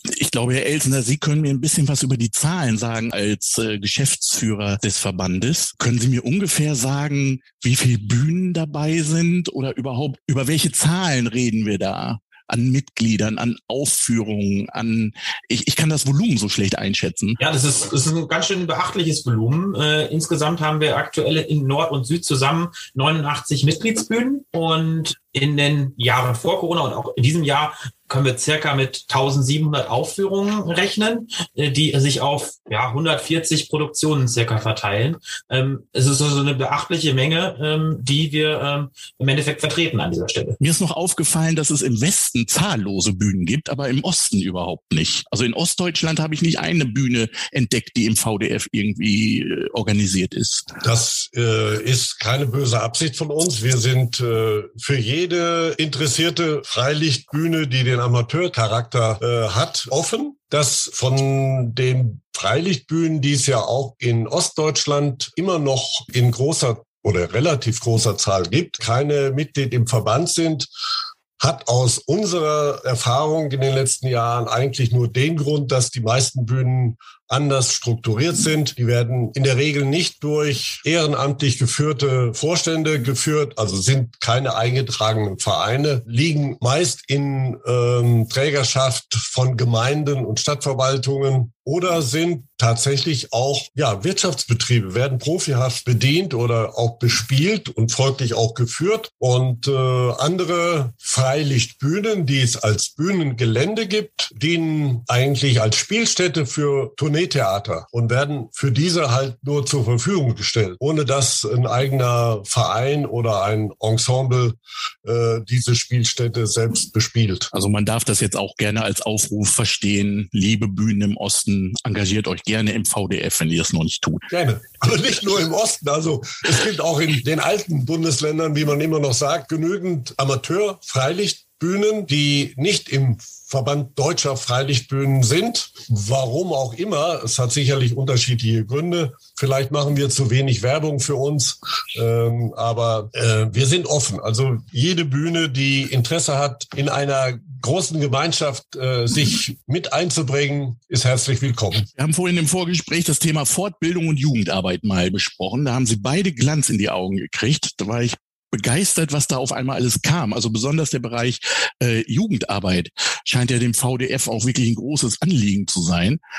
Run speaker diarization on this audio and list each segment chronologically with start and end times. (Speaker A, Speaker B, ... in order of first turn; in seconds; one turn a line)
Speaker A: 0.1-17.4
Speaker B: 17.4-40.6
Speaker A: 40.6-50.6
Speaker C: 50.8-70.7
Speaker C: 71.4-117.5
Speaker A: 117.5-124.2
Speaker C: 124.3-151.9
Speaker A: 151.9-166.2